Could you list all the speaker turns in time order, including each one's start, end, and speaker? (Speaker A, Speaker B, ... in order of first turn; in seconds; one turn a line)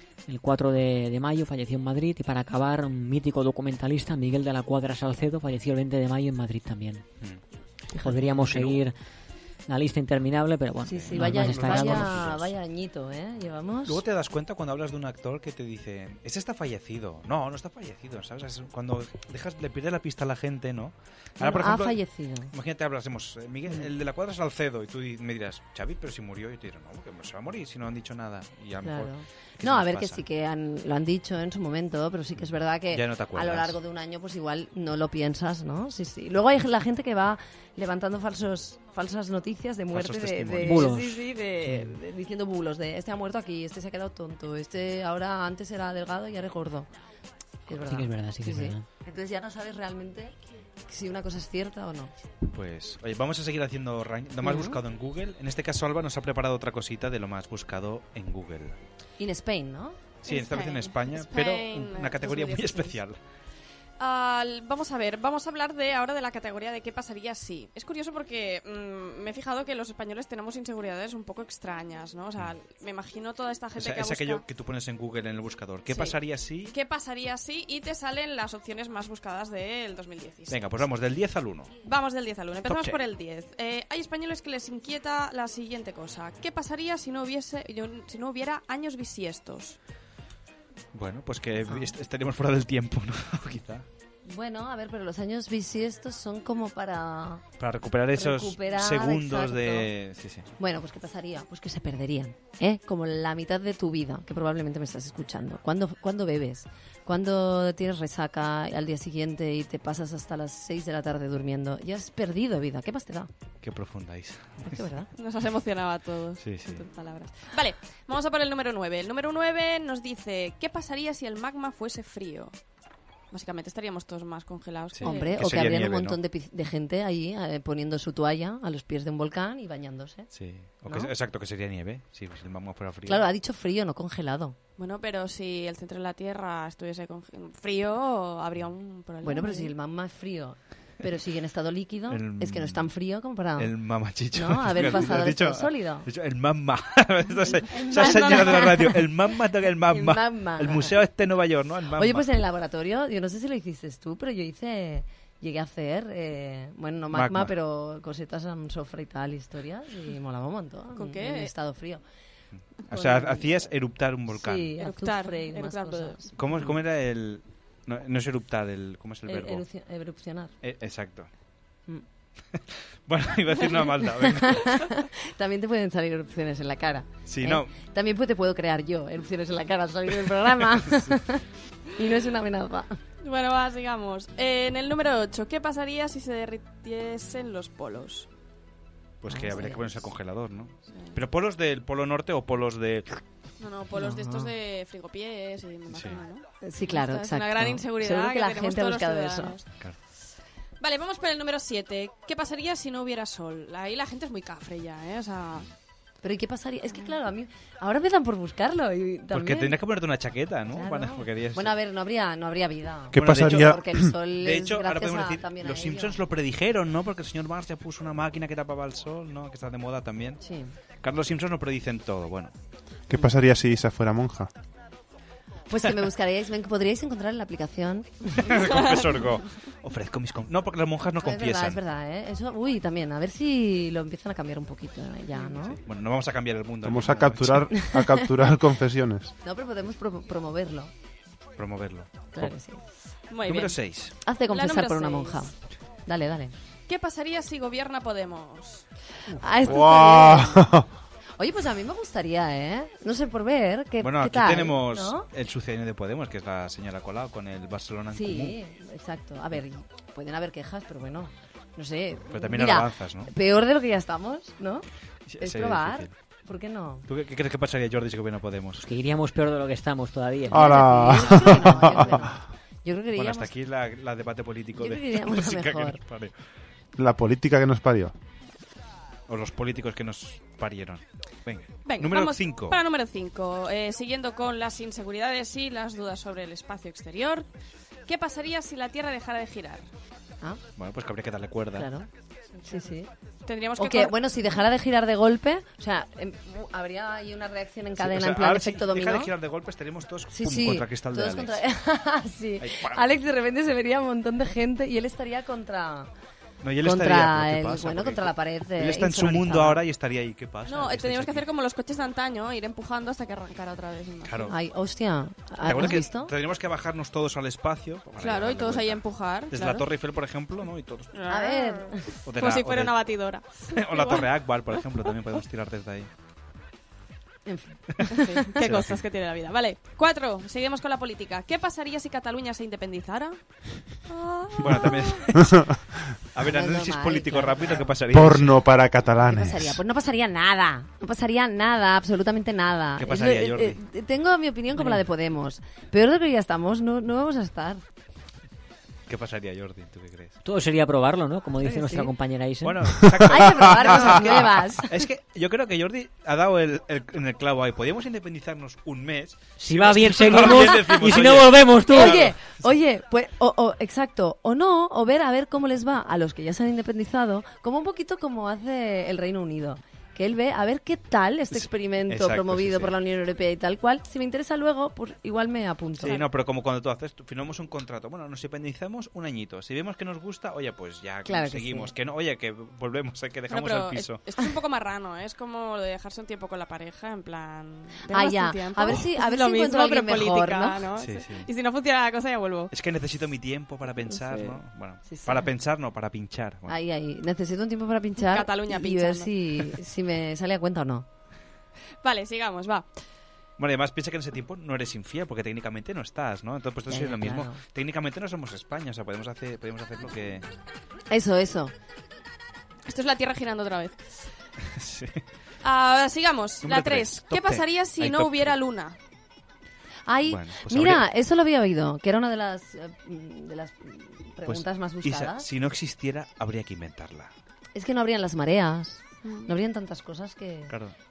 Speaker A: 0.3-7.0
Speaker A: 8.0-8.9
Speaker B: 8.5-8.8
Speaker A: 9.7-12.3
Speaker C: 10.9-14.0
Speaker B: 11.1-12.5
Speaker B: 13.9-22.0
Speaker C: 21.4-22.5
Speaker B: 22.5-30.2
Speaker C: 28.8-46.9
Speaker B: 32.9-33.8
Speaker B: 39.9-40.9
Speaker A: 40.6-41.9
Speaker C: 47.7-50.3
Speaker A: 47.7-48.9
Speaker C: 50.9-52.1
Speaker B: 52.5-58.8
Speaker C: 54.4-54.8
Speaker C: 59.2-60.0
Speaker B: 60.2-63.2
Speaker D: 60.3-63.0
Speaker D: 64.0-74.4
Speaker B: 73.8-76.7
Speaker D: 75.9-76.2
Speaker D: 76.7-80.9
Speaker B: 80.5-81.7
Speaker D: 81.8-89.8
Speaker B: 82.7-83.0
Speaker B: 90.9-93.8
Speaker C: 94.2-97.4
Speaker B: 97.6-100.5
Speaker C: 98.2-99.9
Speaker C: 100.6-113.3
Speaker B: 113.6-114.8
Speaker C: 114.6-115.1
Speaker D: 115.2-122.6
Speaker B: 116.4-116.9
Speaker D: 123.3-125.4
Speaker B: 124.9-126.2
Speaker C: 125.0-130.3
Speaker B: 130.3-133.3
Speaker C: 133.1-134.6
Speaker D: 134.8-139.7
Speaker C: 139.2-143.7
Speaker B: 142.1-142.9
Speaker B: 143.6-152.3
Speaker C: 144.3-146.1
Speaker C: 147.7-149.1
Speaker D: 147.9-148.7
Speaker C: 149.9-150.9
Speaker C: 152.0-162.0
Speaker B: 157.1-157.5
Speaker D: 160.9-161.5
Speaker B: 162.8-164.8
Speaker C: 162.9-163.4
Speaker D: 163.1-163.4
Speaker C: 164.3-166.7
Speaker D: 164.8-166.3
Speaker B: 166.4-169.7
Speaker C: 169.3-170.5
Speaker B: 170.6-171.3
Speaker B: 172.6-174.9
Speaker C: 173.7-181.4
Speaker B: 177.3-177.7
Speaker B: 180.8-181.1
Speaker C: 182.0-182.9
Speaker D: 183.2-188.3
Speaker B: 189.2-193.1
Speaker C: 189.3-189.9
Speaker D: 190.9-191.2
Speaker D: 193.6-199.7
Speaker C: 193.9-194.5
Speaker B: 195.9-196.2
Speaker C: 196.6-199.6
Speaker D: 200.8-205.7
Speaker C: 206.2-209.7
Speaker D: 206.9-207.2
Speaker B: 209.3-211.7
Speaker C: 210.7-216.2
Speaker E: 213.1-213.9
Speaker B: 213.2-213.8
Speaker B: 214.4-220.4
Speaker C: 220.4-220.7
Speaker B: 221.0-222.5
Speaker E: 223.1-224.5
Speaker C: 225.7-228.5
Speaker B: 228.4-231.8
Speaker C: 231.2-235.8
Speaker B: 235.7-237.7
Speaker E: 236.8-239.3
Speaker C: 237.8-238.2
Speaker C: 239.4-240.9
Speaker B: 241.6-242.5
Speaker C: 242.3-242.8
Speaker D: 243.3-243.8
Speaker B: 243.4-244.2
Speaker C: 244.2-245.5
Speaker D: 244.5-245.5
Speaker C: 246.1-246.5
Speaker D: 246.9-248.9
Speaker C: 249.4-250.6
Speaker E: 249.7-250.9
Speaker C: 251.4-255.3
Speaker B: 254.0-258.6
Speaker C: 258.1-264.9
Speaker B: 262.3-263.3
Speaker B: 265.3-266.1
Speaker C: 265.4-267.1
Speaker B: 267.1-268.9
Speaker A: 268.9-270.8
Speaker E: 270.5-272.2
Speaker C: 270.5-273.5
Speaker B: 273.1-276.3
Speaker C: 274.8-276.0
Speaker E: 276.9-278.1
Speaker B: 279.3-282.8
Speaker D: 281.9-287.5
Speaker D: 288.1-289.9
Speaker B: 290.8-291.9
Speaker C: 291.8-292.1
Speaker C: 292.6-293.1
Speaker D: 293.4-294.1
Speaker C: 293.8-299.3
Speaker B: 298.0-301.6
Speaker C: 300.3-306.1
Speaker B: 302.6-303.0
Speaker B: 306.6-311.4
Speaker C: 306.8-309.8
Speaker D: 310.7-314.6
Speaker B: 314.2-314.5
Speaker C: 314.5-316.3
Speaker B: 315.6-321.2
Speaker D: 318.2-319.8
Speaker D: 321.1-324.3
Speaker C: 321.3-322.0
Speaker B: 322.2-323.1
Speaker B: 323.7-326.1
Speaker C: 327.4-328.4
Speaker D: 328.1-333.4
Speaker B: 328.6-329.0
Speaker D: 334.1-335.0
Speaker B: 334.6-335.6
Speaker B: 336.3-338.6
Speaker C: 336.4-337.9
Speaker E: 338.1-339.8
Speaker C: 339.2-347.8
Speaker B: 343.0-343.8
Speaker B: 349.1-350.4
Speaker A: 350.4-352.9
Speaker C: 351.6-352.1
Speaker B: 352.6-362.3
Speaker C: 353.3-355.0
Speaker A: 359.6-362.1
Speaker C: 360.4-361.3
Speaker C: 361.9-376.2
Speaker B: 371.5-372.9
Speaker B: 376.0-384.2
Speaker C: 381.3-381.9
Speaker D: 383.5-392.7
Speaker C: 388.1-390.8
Speaker B: 391.0-391.5
Speaker B: 392.7-396.7
Speaker D: 394.0-394.6
Speaker C: 395.1-395.4
Speaker C: 396.7-401.1
Speaker D: 398.2-399.7
Speaker D: 402.0-402.9
Speaker B: 403.6-410.4
Speaker C: 406.9-407.6
Speaker C: 411.1-411.7
Speaker D: 412.9-414.2
Speaker B: 414.6-415.2
Speaker D: 415.6-419.0
Speaker B: 416.6-418.6
Speaker C: 420.1-425.4
Speaker B: 420.3-421.0
Speaker B: 424.4-427.3
Speaker C: 427.7-430.7
Speaker D: 429.2-429.5
Speaker B: 430.7-430.9